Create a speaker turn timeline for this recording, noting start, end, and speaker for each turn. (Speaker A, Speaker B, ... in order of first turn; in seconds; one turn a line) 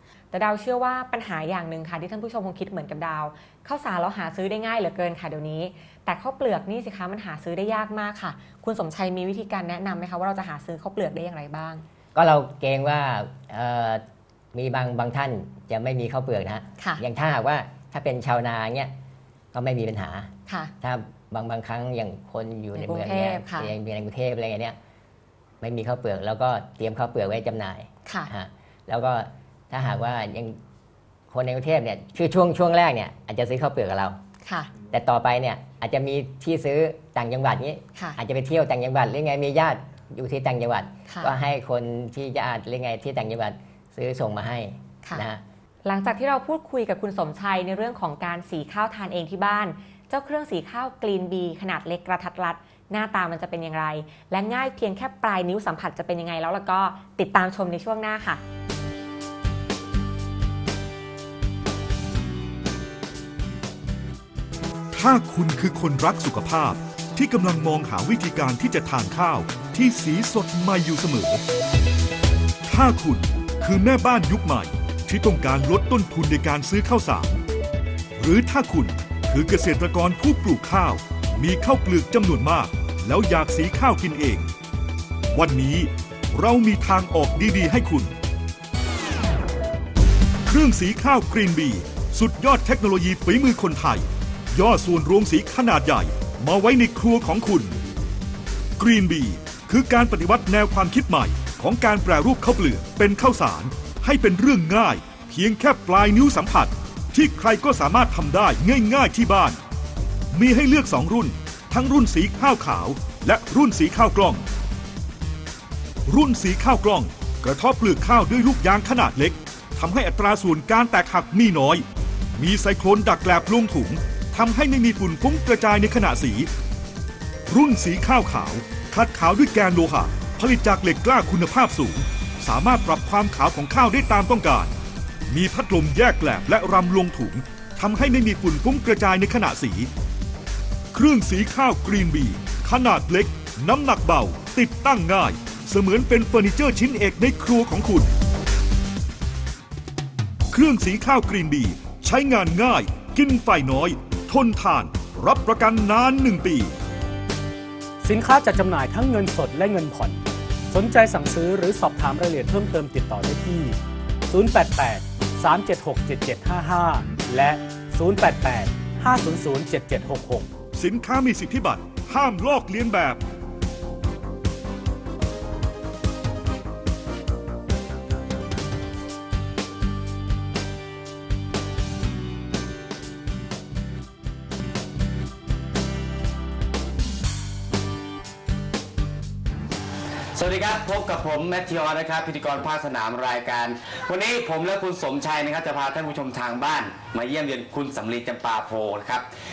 Speaker A: 0.3-11.8
Speaker B: 12.1-18.9
Speaker B: 19.5-24.8
Speaker A: 22.8-23.7
Speaker B: 25.6-30.6
Speaker A: 28.1-28.3
Speaker B: 31.3-34.2
Speaker A: 34.4-34.7
Speaker B: 34.9-45.4
Speaker A: 41.1-41.3
Speaker A: 45.8-58.4
Speaker C: 64.9-71.4
Speaker C: 72.7-77.4
Speaker C: 78.2-84.5
Speaker C: 85.3-88.1
Speaker C: 90.5-97.8
Speaker C: 98.8-109.6
Speaker C: 110.3-114.4
Speaker C: 116.1-121.8
Speaker C: 122.3-126.5
Speaker C: 127.5-134.7
Speaker C: 135.3-139.9
Speaker C: 140.9-148.1
Speaker C: 150.5-156.7
Speaker D: 158.0-163.8
Speaker D: 164.3-170.5
Speaker C: 170.7-173.2
Speaker E: 190.3-199.3